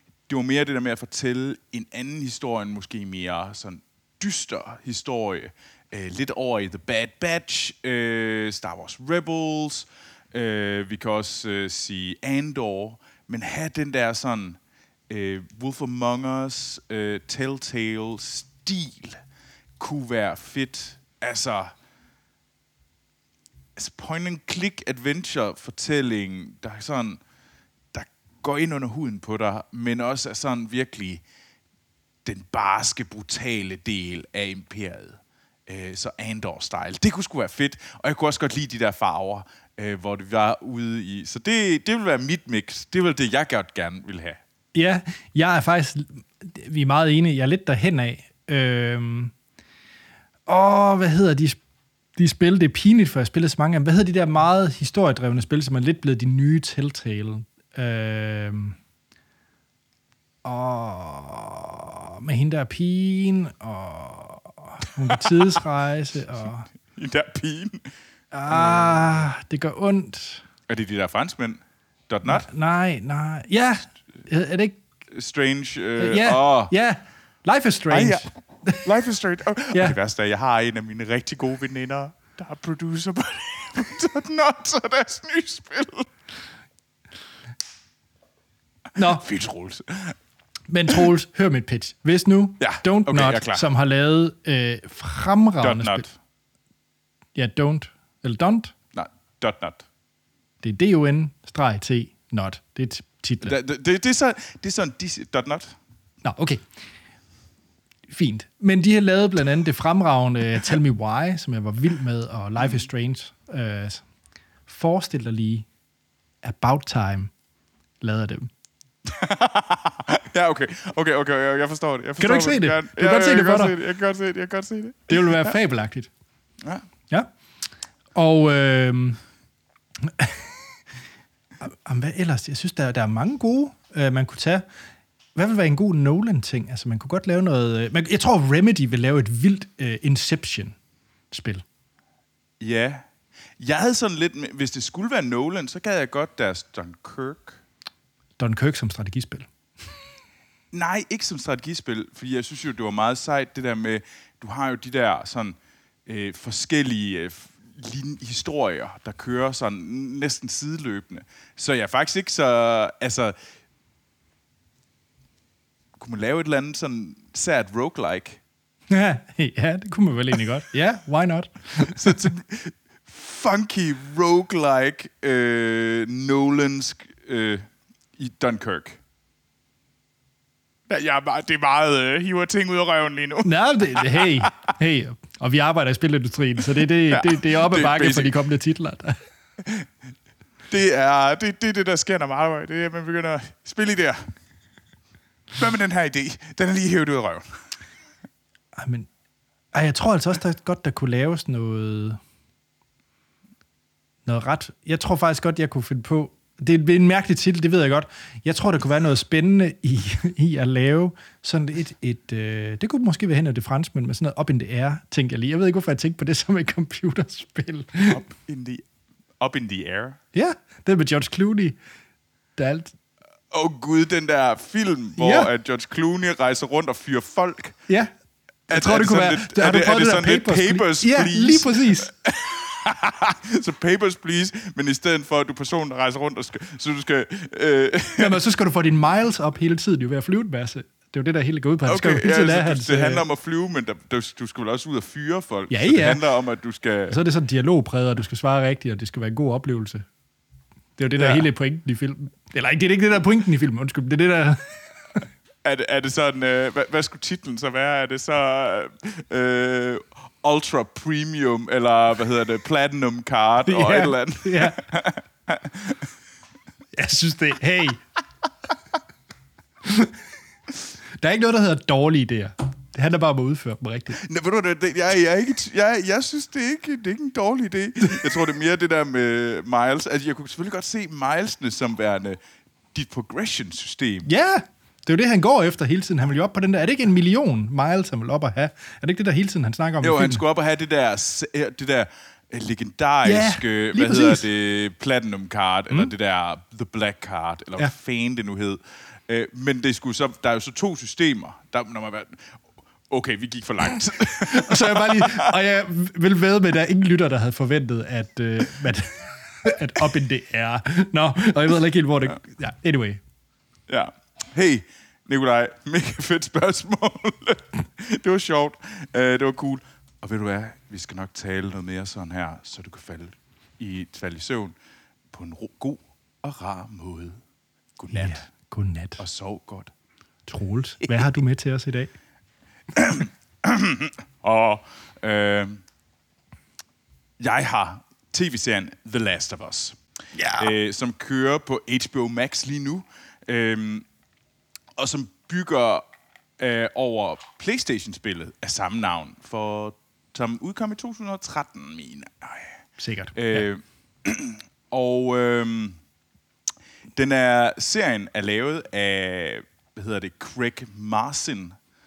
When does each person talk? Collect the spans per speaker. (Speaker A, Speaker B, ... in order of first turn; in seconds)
Speaker A: 0.3-14.6, 15.1-19.2, 19.8-21.7, 23.8-27.2, 27.9-31.2, 32.2-44.4, 65.1-65.5, 66.8-67.9, 68.5-69.1, 70.7-72.5, 75.1-76.7, 77.9-78.3, 78.8-86.1, 89.1-90.2, 92.6-93.6, 95.6-96.1, 98.9-99.9, 103.4-105.8, 112.6-112.8, 119.0-125.5, 142.6-143.1, 143.6-147.6, 150.7-163.4, 166.0-168.4, 171.8-179.0, 180.9-184.5, 187.1-188.4, 189.6-189.9, 190.7-194.2, 195.5-197.5, 218.1-218.9, 219.4-220.2, 223.5-227.8, 228.7-238.4, 241.9-247.2, 251.2-251.5, 255.6-266.1, 274.2-282.4, 282.9-284.3, 290.0-305.5, 313.9-324.8, 325.3-327.4, 328.0-328.4, 329.2-329.9, 332.9-335.8, 337.4-340.0, 340.6-344.1, 345.0-346.1, 346.6-352.8, 353.4-356.0, 357.1-361.8
Speaker B: 44.7-49.3, 50.5-51.6, 52.2-58.8, 60.4-66.7, 68.3-70.5, 72.2-74.8, 76.0-78.9, 79.7-80.0, 89.0-89.3, 90.7-96.0, 97.3-98.8, 100.6-103.5, 106.2-106.6, 108.1-114.0, 114.7-115.7, 116.4-117.3, 118.0-118.5, 122.2-123.8, 125.1-126.1, 128.2-129.2, 130.0-130.6, 131.6-134.6, 135.4-140.8, 141.3-141.6, 148.4-149.5, 168.9-172.2, 183.4-189.2, 198.8-199.1, 199.7-202.2, 204.3-218.2, 220.3-221.8, 222.6-222.9, 225.2-225.5, 228.7-232.1, 238.2-243.3, 245.7-246.2, 247.1-250.1, 251.0-255.3, 263.7-264.8, 266.9-268.0, 269.9-270.1, 271.2-274.2, 284.2-290.4, 293.2-294.5, 304.4-313.2, 328.1-329.2, 330.5-332.1, 340.4-340.7, 353.0-353.7